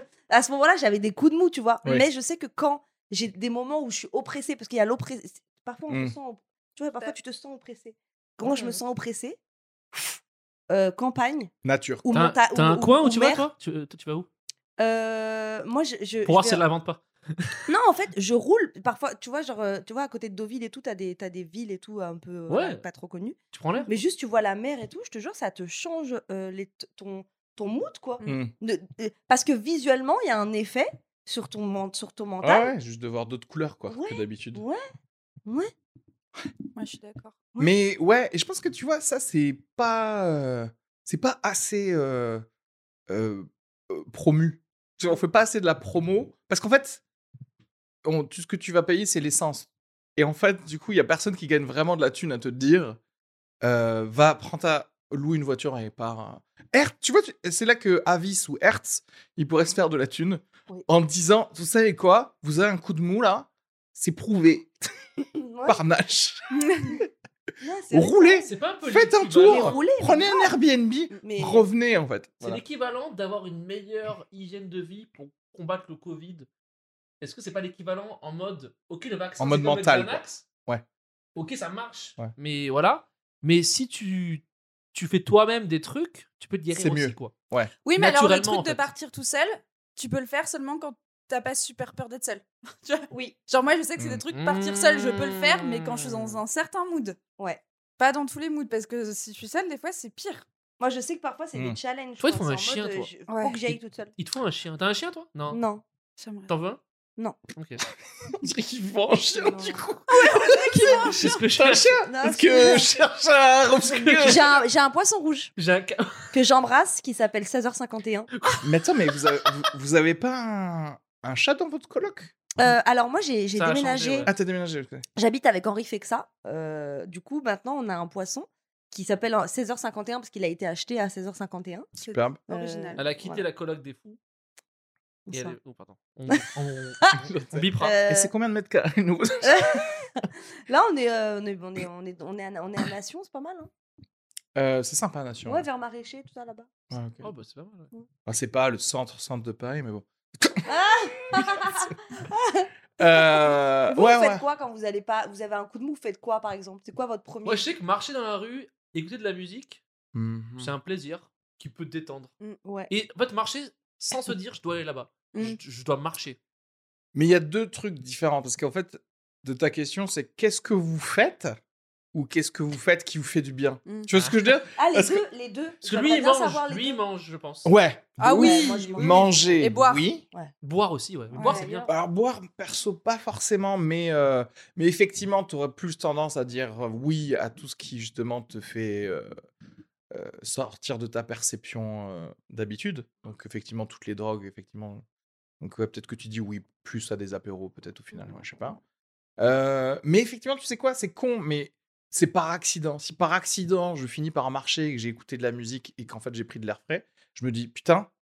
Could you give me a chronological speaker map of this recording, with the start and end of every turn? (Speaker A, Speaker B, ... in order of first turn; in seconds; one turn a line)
Speaker A: 0.3-9.4
Speaker B: 5.9-6.1
Speaker C: 8.4-8.7
Speaker A: 9.9-11.5
Speaker B: 11.6-12.0
Speaker A: 12.0-13.4
Speaker C: 12.1-14.3
Speaker A: 14.8-16.6
Speaker C: 16.2-17.6
Speaker A: 17.7-32.7
Speaker C: 22.5-22.8
Speaker C: 23.5-23.9
Speaker B: 28.2-28.5
Speaker B: 32.4-34.6
Speaker A: 33.9-34.8
Speaker A: 35.5-35.7
Speaker D: 36.7-37.3
Speaker B: 37.6-42.4
Speaker B: 43.1-47.0
Speaker B: 48.0-53.0
Speaker B: 53.6-64.9
Speaker A: 65.4-65.8
Speaker B: 65.7-67.0
Speaker D: 66.5-67.0
Speaker A: 67.6-68.5
Speaker B: 67.9-72.6
Speaker C: 68.4-69.8
Speaker A: 69.4-70.5
Speaker A: 71.2-71.6
Speaker C: 72.4-76.5
Speaker C: 77.2-80.4
Speaker B: 79.4-80.8
Speaker C: 81.3-84.4
Speaker C: 84.9-87.3
Speaker B: 86.7-87.7
Speaker D: 87.8-97.2
Speaker C: 88.0-88.9
Speaker B: 94.0-94.2
Speaker C: 94.3-96.4
Speaker D: 98.0-100.4
Speaker A: 100.8-104.1
Speaker C: 102.2-103.1
Speaker D: 103.3-103.6
Speaker C: 103.7-105.6
Speaker A: 105.5-105.8
Speaker D: 106.2-106.5
Speaker C: 106.5-106.8
Speaker C: 107.5-107.8
Speaker B: 108.3-114.6
Speaker A: 109.3-109.8
Speaker D: 110.1-111.3
Speaker C: 111.0-112.0
Speaker A: 112.0-112.9
Speaker C: 113.8-114.5
Speaker A: 114.2-115.5
Speaker C: 115.6-116.3
Speaker A: 116.3-118.3
Speaker C: 118.3-118.7
Speaker B: 118.6-122.3
Speaker A: 122.5-124.3
Speaker C: 123.5-124.3
Speaker B: 124.2-125.0
Speaker A: 125.2-131.9
Speaker D: 132.0-133.0
Speaker B: 132.1-132.4
Speaker A: 132.5-133.4
Speaker C: 133.0-134.2
Speaker A: 135.3-135.6
Speaker C: 135.3-137.9
Speaker B: 137.3-139.9
Speaker A: 137.8-138.3
Speaker A: 139.4-143.7
Speaker B: 144.5-145.6
Speaker A: 145.4-146.7
Speaker B: 146.9-147.3
Speaker C: 147.2-147.9
Speaker B: 148.2-150.7
Speaker A: 150.7-157.7
Speaker B: 151.3-151.6
Speaker B: 153.0-154.4
Speaker C: 157.4-159.8
Speaker B: 160.1-160.7
Speaker C: 160.6-162.3
Speaker A: 162.6-162.9
Speaker C: 162.9-166.4
Speaker B: 167.1-171.6
Speaker B: 172.1-175.2
Speaker C: 174.1-174.4
Speaker A: 174.8-177.0
Speaker C: 175.8-177.7
Speaker B: 177.6-180.2
Speaker D: 178.2-180.0
Speaker A: 178.3-179.6
Speaker C: 180.6-181.9
Speaker D: 181.3-181.8
Speaker A: 181.3-181.9
Speaker B: 181.9-189.3
Speaker B: 190.1-195.0
Speaker B: 195.6-198.8
Speaker B: 199.4-208.1